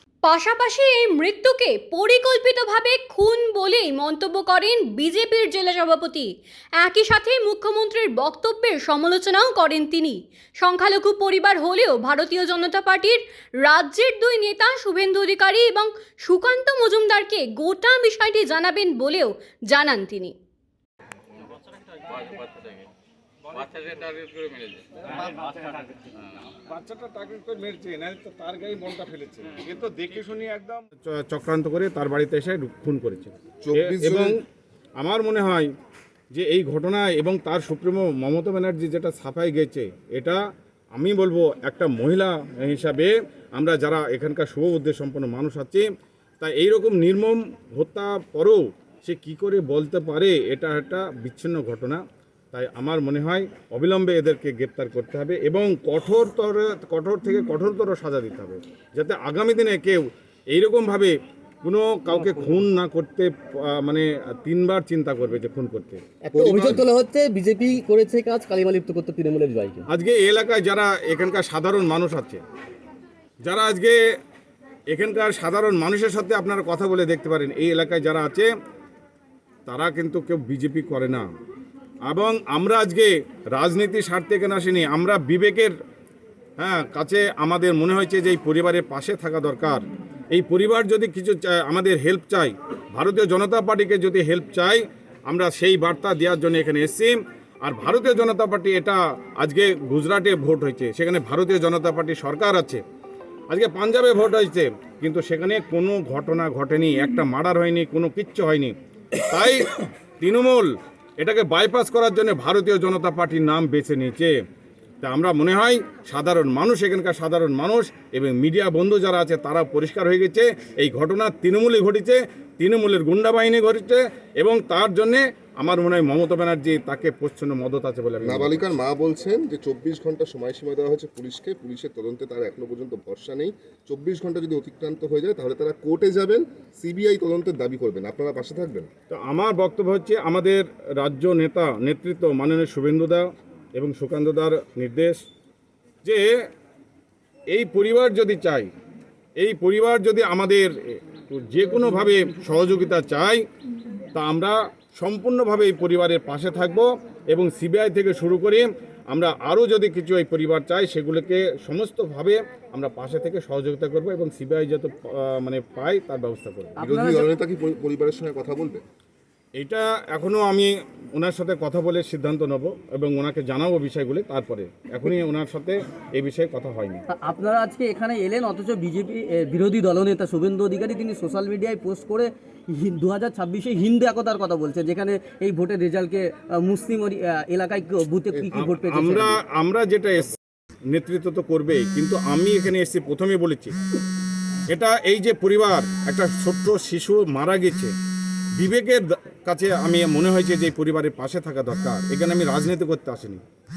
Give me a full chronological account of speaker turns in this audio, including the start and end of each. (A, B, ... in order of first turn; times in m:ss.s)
0:00.2-0:20.3 A
0:21.9-0:22.9 B
0:23.5-0:25.0 B
0:25.1-0:34.4 C
0:33.6-0:34.4 D
0:35.0-0:35.7 C
0:36.3-0:40.4 C
0:41.0-0:45.9 C
0:46.4-0:52.0 C
0:52.5-1:06.0 C
1:02.1-1:02.6 E
1:06.2-1:09.8 E
1:06.3-1:06.8 D
1:09.9-1:12.4 C
1:13.4-1:14.0 C
1:14.9-1:18.5 C
1:19.7-1:21.3 C
1:22.0-1:25.7 C
1:26.6-1:42.8 C
1:43.5-1:48.7 C
1:49.3-1:54.4 C
1:55.0-2:08.7 C
2:08.2-2:18.9 D
2:19.1-2:25.2 C
2:27.5-2:28.7 C
2:29.4-2:33.4 C
2:34.1-2:46.8 C
2:46.8-2:47.3 E
2:46.8-2:48.8 D
2:49.6-2:57.0 C
2:57.1-3:09.4 E
3:08.6-3:13.8 C
3:14.7-3:17.9 C
3:18.6-3:23.4 C